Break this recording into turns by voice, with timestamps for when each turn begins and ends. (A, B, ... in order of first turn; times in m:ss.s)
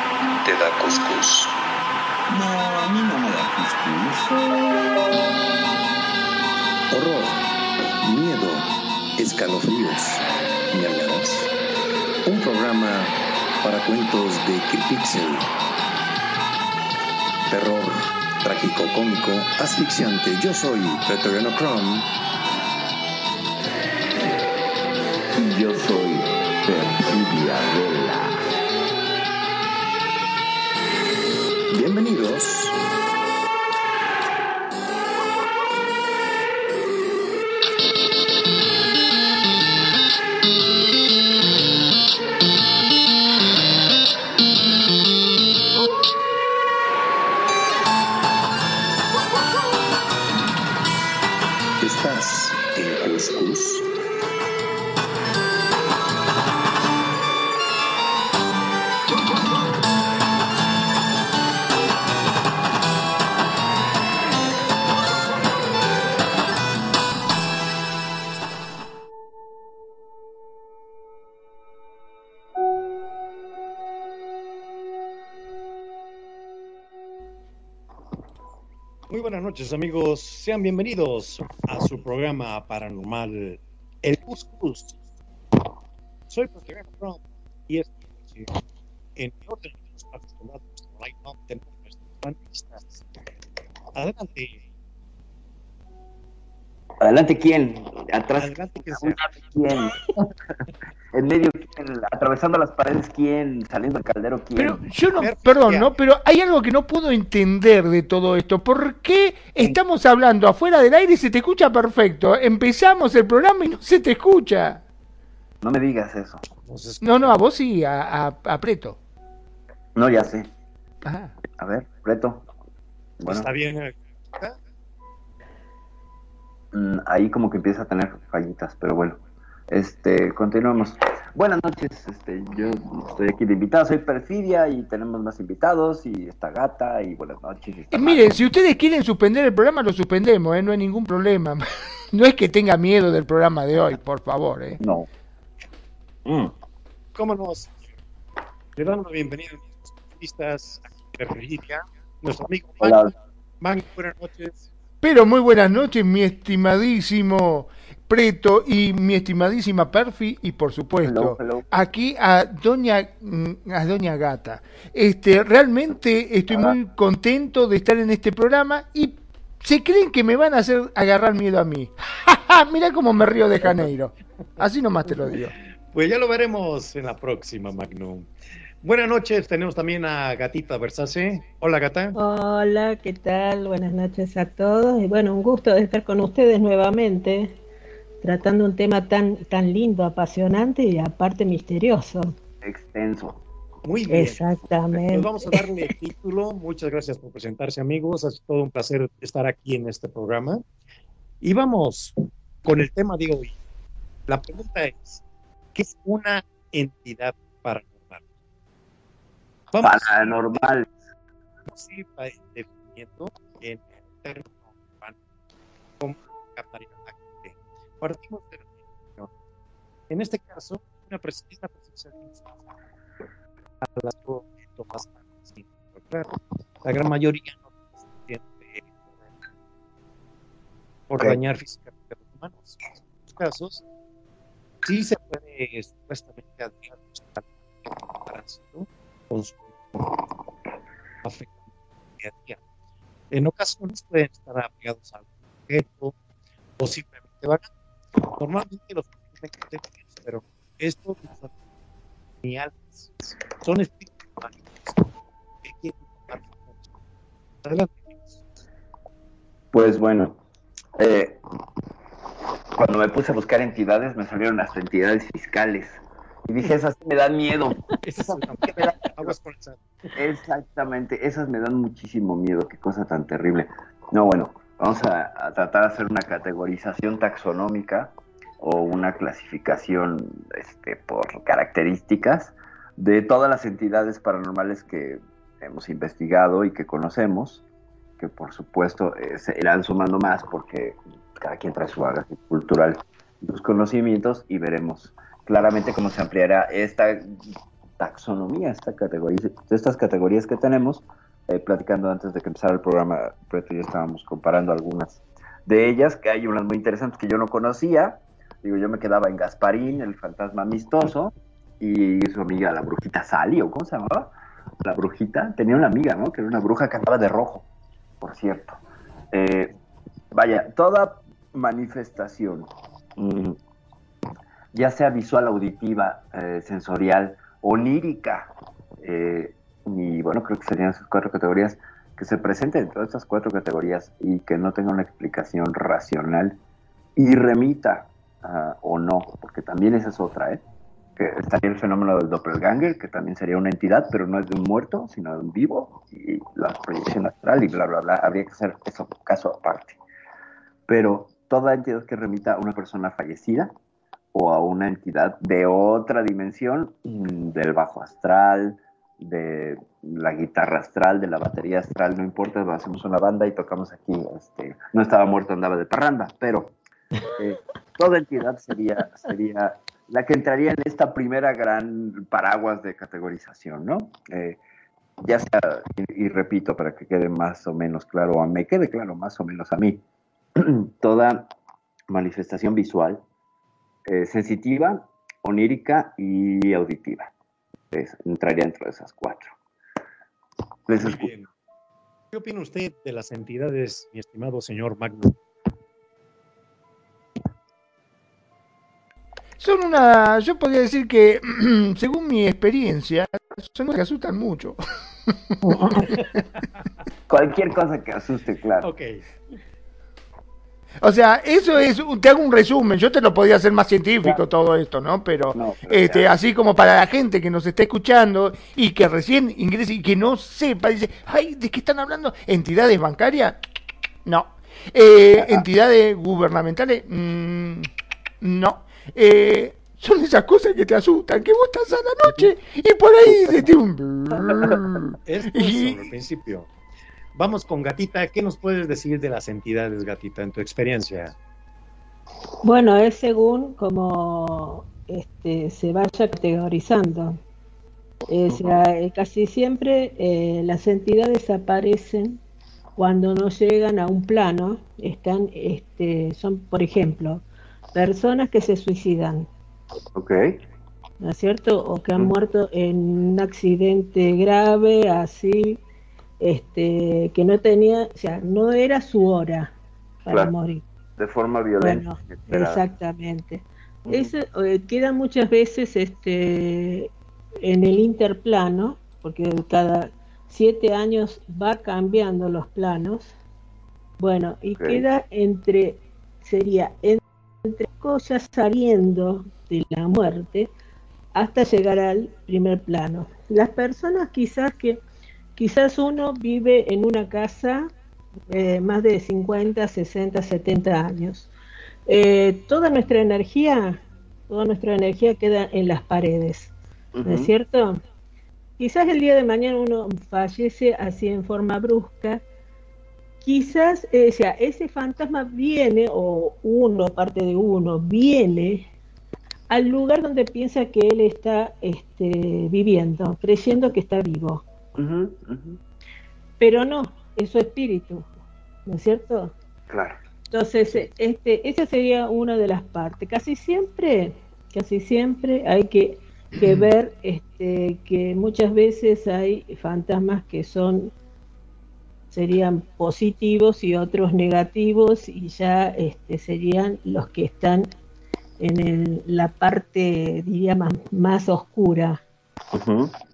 0:00.4-0:01.6 A
0:02.3-0:04.4 A
0:06.9-0:07.4 A
0:08.0-0:11.5 A
0:12.2-0:15.5 A
0:17.5-0:22.1 A
0:25.4-0:28.4 B
0:31.7-0:32.8 A
0:51.8-0:53.8 A
1:19.1-1:25.0 C
1:26.3-1:28.5 C
1:29.2-1:33.0 C
1:33.9-1:34.6 C
1:37.0-1:40.3 B
1:38.4-1:39.5 C
1:41.1-1:44.8 B
1:44.6-1:54.8 D
1:45.2-1:46.0 C
1:55.6-1:56.4 B
1:56.5-1:57.4 C
1:57.0-1:59.0 D
2:00.0-2:00.5 B
2:01.0-2:01.3 D
2:01.6-2:02.5 B
2:03.2-2:03.5 B
2:03.2-2:04.6 C
2:06.7-2:18.4 B
2:17.9-2:24.8 D
2:24.8-2:25.1 B
2:26.2-2:26.5 B
2:27.1-2:27.8 C
2:28.8-2:34.7 C
2:32.8-2:33.1 B
2:35.0-2:55.5 D
2:41.0-2:41.7 B
2:46.5-2:46.7 B
2:53.6-2:53.9 C
2:55.9-2:58.3 C
2:58.8-3:02.2 C
3:02.1-3:07.6 E
3:08.2-3:12.3 E
3:12.6-3:13.4 B
3:13.8-3:14.4 C
3:14.1-3:15.6 E
3:15.1-3:20.6 C
3:21.4-3:23.6 C
3:24.3-3:25.2 C
3:25.7-3:28.2 C
3:29.7-3:30.7 C
3:29.8-3:30.9 B
3:31.6-3:35.2 C
3:36.0-3:39.3 C
3:40.1-3:42.7 C
3:43.8-3:46.3 C
3:46.8-3:49.4 C
3:51.1-3:53.8 C
3:54.8-4:00.1 C
4:01.2-4:01.6 C
4:02.2-4:02.6 C
4:03.3-4:06.2 C
4:06.8-4:07.7 C
4:08.3-4:11.5 C
4:12.4-4:15.1 C
4:15.6-4:16.8 C
4:17.6-4:18.4 C
4:19.7-4:20.4 B
4:21.0-4:21.4 B
4:22.8-4:29.3 B
4:28.0-4:30.2 C
4:30.2-4:47.6 B
4:48.2-4:57.4 B
4:58.0-5:14.3 B
5:14.8-5:17.7 B
5:18.2-5:18.8 B
5:19.3-5:19.7 B
5:20.3-5:23.6 B
5:24.7-5:36.6 B
5:37.2-5:40.6 B
5:41.2-5:50.0 B
5:50.9-5:53.7 B
5:54.3-6:06.8 B
6:07.3-6:14.6 B
6:15.2-6:20.0 B
6:20.6-6:21.5 B
6:22.1-6:23.2 B
6:24.0-6:27.3 B
6:27.9-6:29.5 B
6:30.9-6:31.3 B
6:31.0-6:31.5 C
6:32.3-6:35.4 C
6:39.6-6:46.2 D
6:45.8-6:46.1 B
6:45.9-6:46.6 C
6:47.3-6:48.9 B
6:48.8-6:49.2 C
6:51.0-7:03.6 D
6:55.5-6:56.3 B
7:04.2-7:07.9 D
7:05.4-7:05.6 B
7:08.4-7:16.0 D
7:15.2-7:16.7 C
7:17.3-7:21.3 C
7:22.6-7:27.4 E
7:28.3-7:32.4 E
7:28.5-7:28.8 B
7:33.0-7:39.5 E
7:40.1-7:40.5 B
7:41.2-7:45.8 E
7:46.4-7:50.8 E
7:50.3-7:50.5 B
7:51.2-7:52.8 B
7:51.8-7:57.1 E
7:54.0-7:54.3 B
7:57.6-8:03.3 E
8:04.2-8:10.7 E
8:04.8-8:05.0 B
8:11.3-8:15.0 E
8:15.6-8:17.9 E
8:18.5-8:21.5 E
8:22.1-8:26.7 E
8:27.1-8:27.5 B
8:27.2-8:28.0 E
8:28.8-8:32.4 E
8:33.4-8:38.9 E
8:39.7-8:44.6 E
8:45.0-8:45.8 B
8:46.6-8:48.3 E
8:48.8-8:49.5 E
8:49.9-8:50.2 B
8:50.5-9:01.1 E
9:02.3-9:07.9 E
9:08.6-9:12.2 E
9:12.7-9:13.1 B